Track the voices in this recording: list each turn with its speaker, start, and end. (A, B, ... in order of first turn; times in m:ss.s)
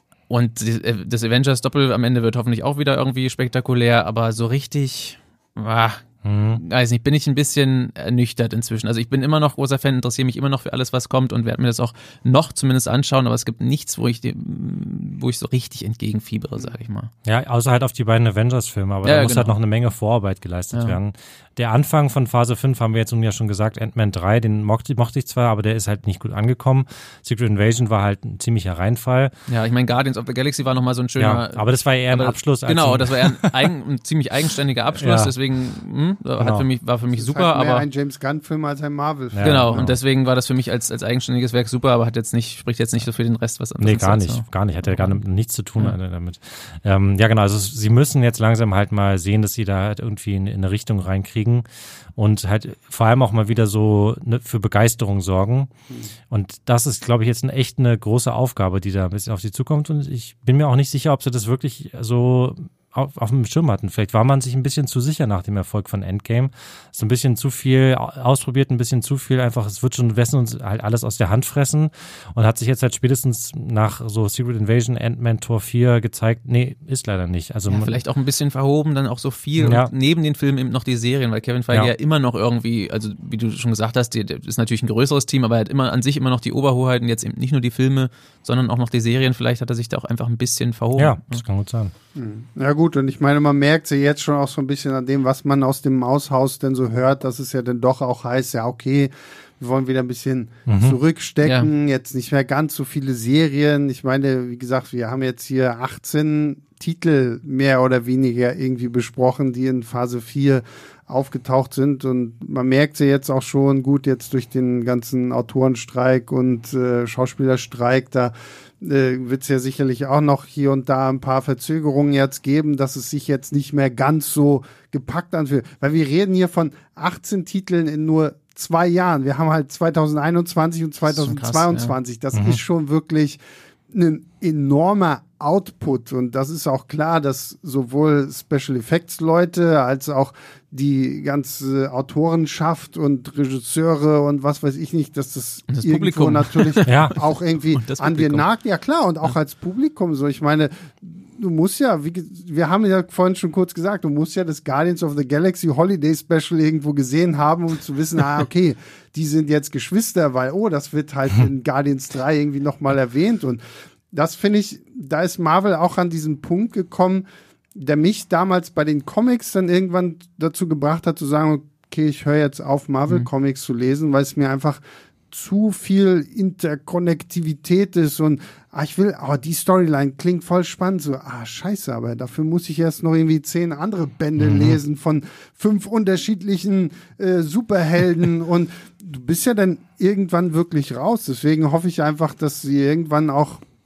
0:00.3-0:17.1 A
0:06.2-0:06.6 B
0:17.2-0:29.3 B
0:19.0-0:19.6 A
0:29.5-0:37.8 A
0:31.2-0:33.7 B
0:34.9-0:35.3 B
0:36.4-0:36.6 B
0:37.1-0:39.8 C
0:39.3-0:40.0 B
0:39.4-0:45.2 A
0:43.8-0:55.7 B
0:56.3-1:18.0 B
1:17.7-1:31.4 A
1:19.6-1:19.9 B
1:31.0-1:31.9 B
1:32.1-2:13.4 C
1:40.7-1:41.0 B
1:41.4-1:41.7 A
2:11.1-2:11.9 A
2:12.3-2:12.6 B
2:13.9-2:43.6 C
2:25.7-2:28.4 A
2:26.9-2:27.1 B
2:44.1-3:13.6 C
3:04.4-3:04.8 B